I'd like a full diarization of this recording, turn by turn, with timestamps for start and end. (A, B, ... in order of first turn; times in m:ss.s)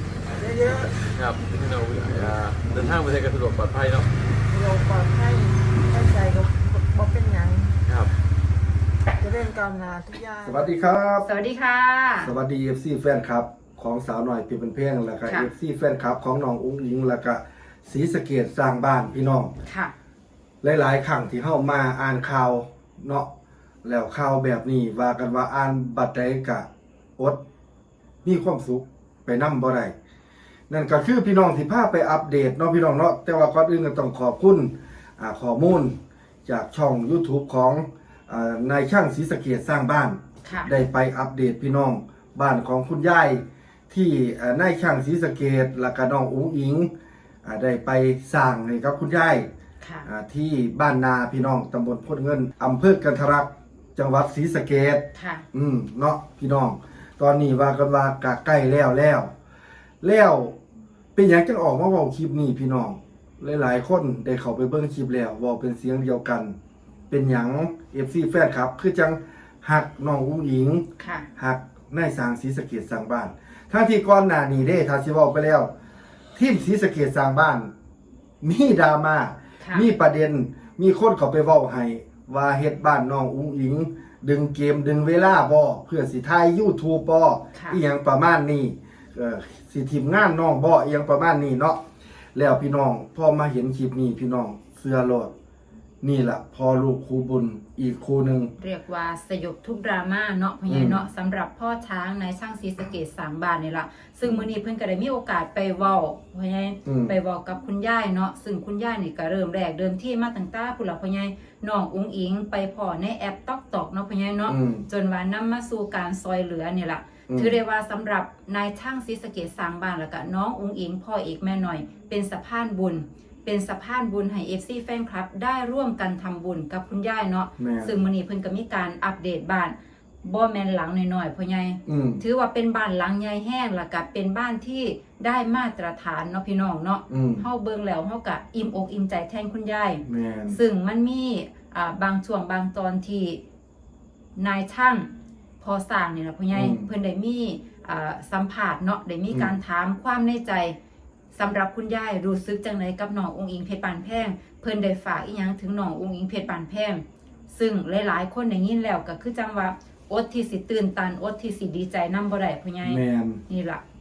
0:00.4-0:01.1 A
0:01.2-0:04.1 B
0:04.5-0:07.8 A
0:07.9-0:08.1 B
0:09.2-0:10.6 A
0:10.4-0:11.3 C
0:11.2-0:12.3 D
0:12.2-0:19.5 C
0:15.2-0:15.5 D
0:19.6-0:19.9 D
0:20.6-0:23.3 C
0:23.8-0:27.4 C
0:28.2-0:29.9 C
0:30.7-0:46.9 C
0:40.4-0:40.7 D
0:47.4-0:49.5 C
0:49.8-0:50.1 D
0:50.0-0:59.3 C
0:55.1-0:55.4 D
1:00.0-1:00.5 C
1:01.1-1:06.5 C
1:07.1-1:10.8 C
1:11.0-1:11.3 D
1:11.4-1:15.7 C
1:16.4-1:17.7 C
1:18.4-1:31.8 C
1:19.6-1:19.9 D
1:27.5-1:27.8 D
1:32.3-1:35.3 C
1:36.0-1:38.5 C
1:38.6-2:23.4 D
1:40.7-1:41.0 C
1:46.8-1:47.1 C
1:54.5-1:54.8 C
1:57.3-1:57.6 C
2:07.6-2:08.0 C
2:11.8-2:12.2 C
2:17.1-2:17.4 C
2:20.0-2:20.6 C
2:24.3-2:30.8 D
2:26.5-2:26.9 C
2:29.3-2:29.5 C
2:31.3-2:43.8 D
2:42.8-2:43.4 C